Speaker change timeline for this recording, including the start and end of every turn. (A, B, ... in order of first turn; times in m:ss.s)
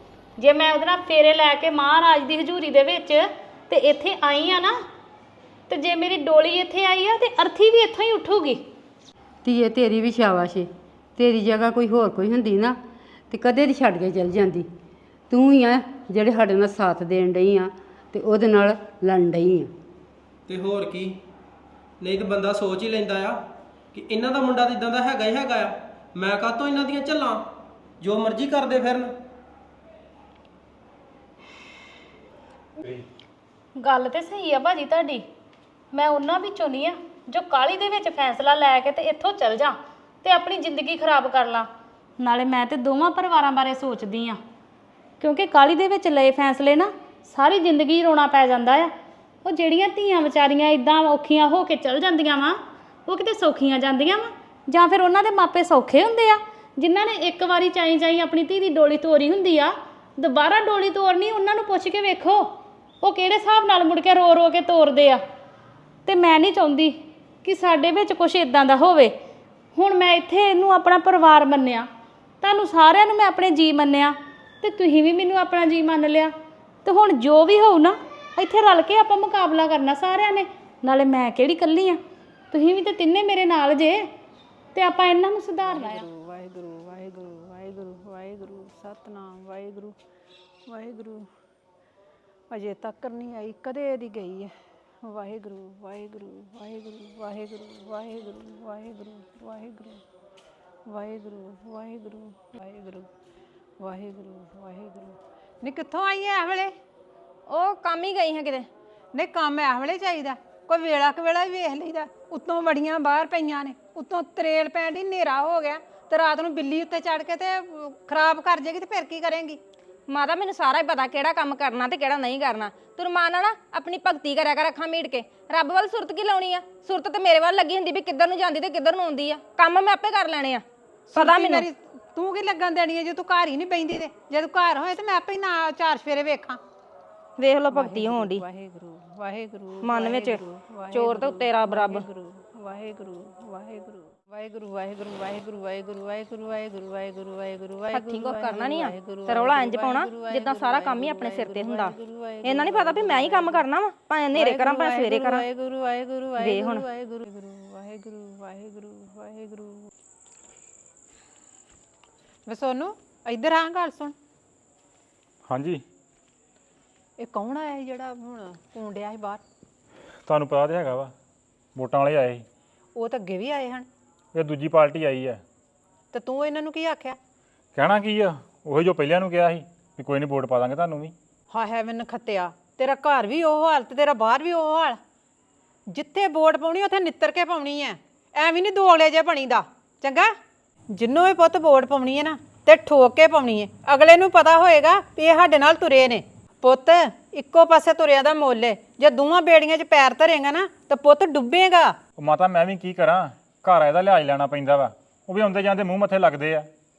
0:00.4-0:04.8 A
0:05.7-0:08.6 A
0:09.4-0:12.8 B
0:13.3-0:14.7 B
0:15.3-0:19.7 B
0:20.5-0:21.2 C
0:22.0-0:23.4 C
0:23.9-0:27.4 C
0:28.0-0:29.1 C
0:33.8-0:35.2 A
0:35.9-0:41.7 A
0:42.2-0:44.4 A
0:45.2-0:48.9 A
0:49.4-1:02.5 A
1:03.0-1:05.2 A
1:06.1-1:09.1 A
1:09.8-1:11.9 A
1:12.4-1:16.3 A
1:16.8-1:22.0 A
1:22.5-1:24.1 A
1:24.8-1:26.1 A
1:25.8-1:29.9 D
1:30.7-1:31.2 D
1:32.5-1:34.5 D
1:35.1-1:40.0 D
1:40.9-1:43.1 D
1:43.8-1:46.7 D
1:47.5-1:48.7 E
1:49.1-1:59.6 D
2:00.1-2:11.7 E
2:11.1-2:16.6 D
2:17.4-2:18.4 E
2:17.7-2:33.6 D
2:19.8-2:22.1 E
2:27.9-2:35.5 E
2:34.4-2:39.8 D
2:36.3-2:36.9 E
2:42.5-2:44.2 D
2:45.5-2:45.8 F
2:47.2-2:49.4 D
2:50.3-2:51.1 F
2:51.8-2:52.5 F
2:53.0-2:53.9 D
2:54.4-2:55.4 F
2:56.1-2:57.2 D
2:57.8-3:01.2 F
3:01.5-3:05.0 D
3:05.9-3:10.3 D
3:10.9-3:22.0 D
3:22.2-3:26.7 F